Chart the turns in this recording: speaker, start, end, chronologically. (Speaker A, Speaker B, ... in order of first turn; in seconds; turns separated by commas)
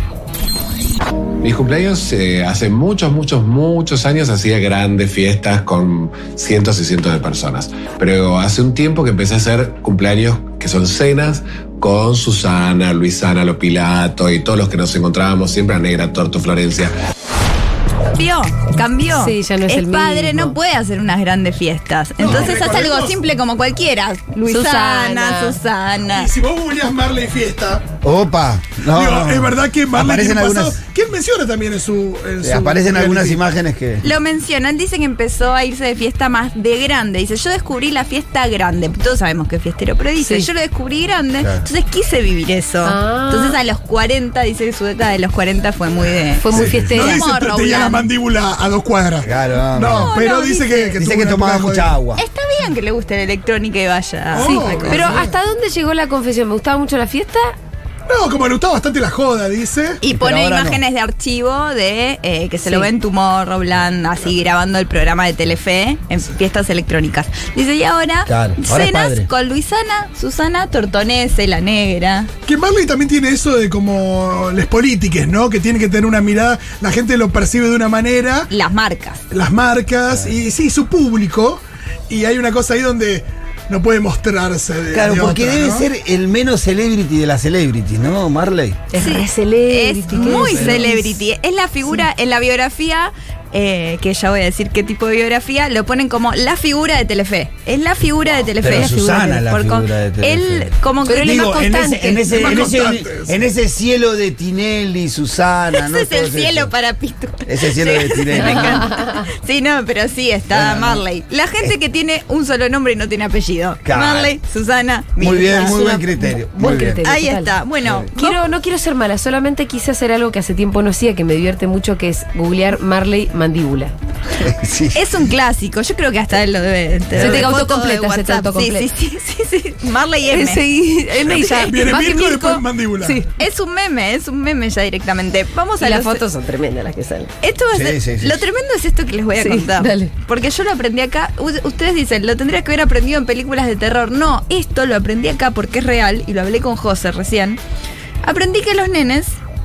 Speaker A: 1.4-16.9, Speaker B: 18.1-26.3, Speaker C: 19.1-20.5, Speaker D: 22.2-23.2, Speaker E: 22.2-22.5, Speaker C: 24.5-25.6, Speaker D: 26.1-27.9, Speaker E: 28.0-30.8, Speaker D: 28.9-33.4, Speaker E: 32.4-34.1, Speaker B: 34.0-48.1, Speaker C: 40.2-40.5, Speaker E: 41.4-41.6, Speaker C: 42.8-43.6, Speaker C: 46.4-47.2, Speaker D: 46.5-51.9, Speaker E: 46.5-46.8, Speaker E: 49.2-50.1, Speaker B: 49.9-50.9, Speaker E: 51.0-52.2, Speaker B: 52.1-55.2, Speaker D: 54.3-55.3, Speaker C: 54.4-57.5, Speaker D: 58.1-60.0, Speaker B: 60.0-72.3, Speaker E: 60.1-60.8, Speaker E: 68.2-69.3, Speaker D: 72.5-78.5, Speaker B: 78.5-79.2, Speaker D: 79.3-85.8, Speaker E: 84.9-88.8, Speaker C: 88.9-91.1, Speaker B: 88.9-101.5, Speaker E: 90.2-90.8, Speaker E: 98.5-106.7, Speaker C: 101.0-102.6, Speaker D: 102.3-103.4, Speaker B: 105.7-115.9, Speaker E: 107.5-108.9, Speaker C: 108.4-109.2, Speaker E: 110.5-111.0, Speaker E: 113.8-114.3, Speaker E: 115.2-117.1, Speaker C: 115.3-117.5, Speaker B: 117.0-118.4, Speaker E: 117.8-118.1, Speaker C: 118.1-123.9, Speaker E: 124.3-125.1, Speaker B: 124.9-130.6, Speaker E: 127.1-127.5, Speaker C: 127.2-128.9, Speaker C: 130.3-133.3, Speaker B: 131.2-132.0, Speaker D: 131.3-133.2, Speaker B: 133.4-136.2, Speaker C: 135.8-137.3, Speaker B: 137.4-147.6, Speaker E: 137.7-138.4, Speaker C: 139.4-140.1, Speaker B: 148.2-149.4